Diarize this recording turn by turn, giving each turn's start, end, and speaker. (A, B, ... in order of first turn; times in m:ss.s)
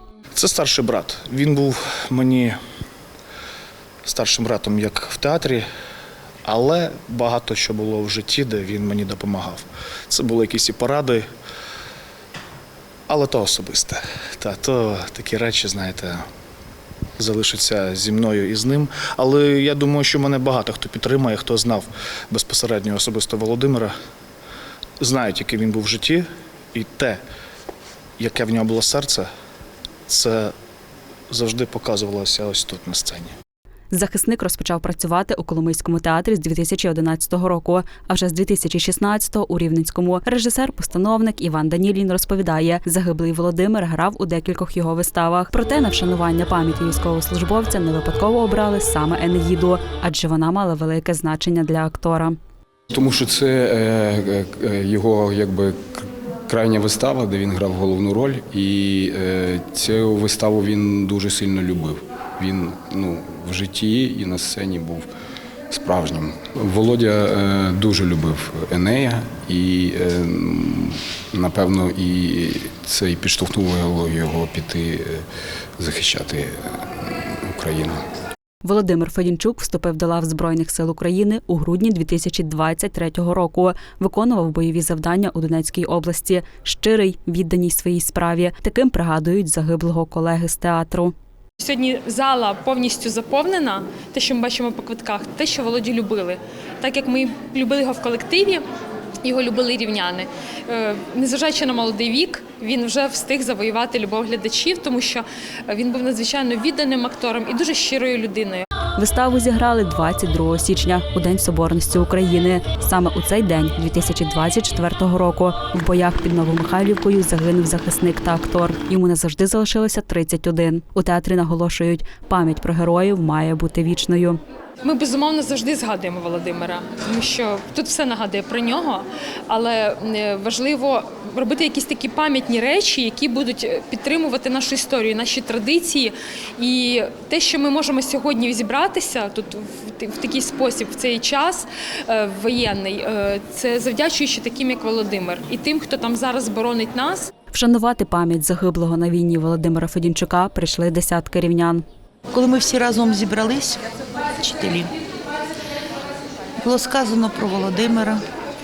0:00.4-0:02.6 A
0:04.0-0:05.6 A
0:06.4-0:11.3 A
0:13.1-0:16.2 A
0:17.2-0:23.9 A
0:25.0-0:27.2 A
0:28.2-0:29.3 A
0:30.1-0:30.5 A
0:31.3-0:33.3 A
0:33.9-0:52.4 B
0:52.9-1:05.1 C
1:05.7-1:15.2 C
1:15.8-1:18.0 C
1:18.6-1:31.1 B
1:31.6-1:38.6 D
1:39.2-1:48.6 D
1:49.0-2:04.4 B
2:04.8-2:27.3 D
2:27.5-2:31.8 B
2:32.3-2:33.8 E
2:34.4-2:34.9 E
2:36.6-2:38.2 E